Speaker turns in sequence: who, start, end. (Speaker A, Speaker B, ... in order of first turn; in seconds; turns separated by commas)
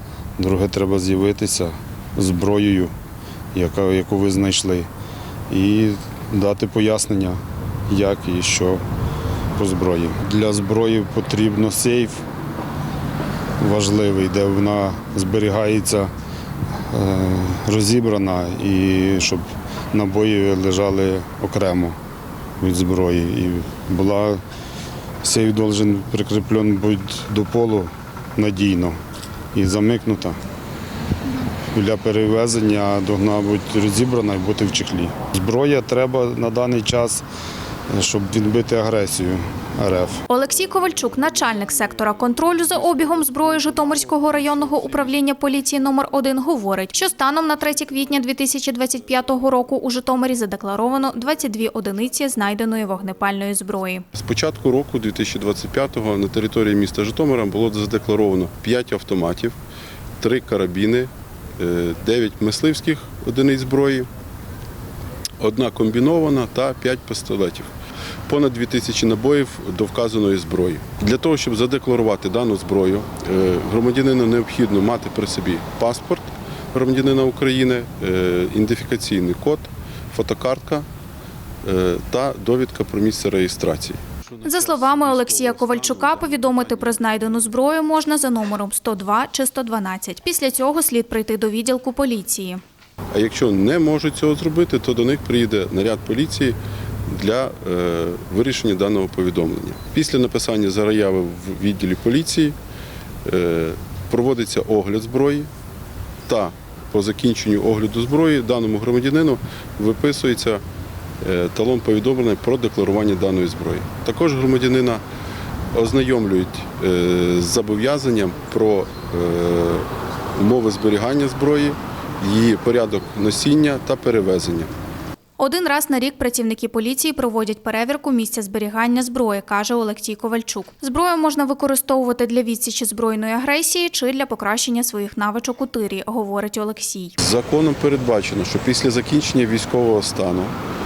Speaker A: 0.4-2.9, Speaker A: 3.5-4.9, Speaker A: 5.5-8.8, Speaker A: 9.6-12.2, Speaker A: 13.6-16.1, Speaker A: 16.7-22.0, Speaker A: 22.6-24.4, Speaker A: 25.2-29.0, Speaker A: 29.5-30.4, Speaker A: 31.6-37.2, Speaker A: 37.9-40.2, Speaker B: 40.3-54.0, Speaker C: 54.1-59.5, Speaker C: 60.2-64.1, Speaker C: 65.4-67.7, Speaker C: 68.3-80.9, Speaker C: 81.6-86.9, Speaker B: 84.4-92.6, Speaker C: 93.1-102.5, Speaker C: 103.2-105.5, Speaker C: 106.3-110.6, Speaker C: 111.2-115.0, Speaker C: 115.7-124.7, Speaker B: 125.4-137.2, Speaker C: 137.2-140.5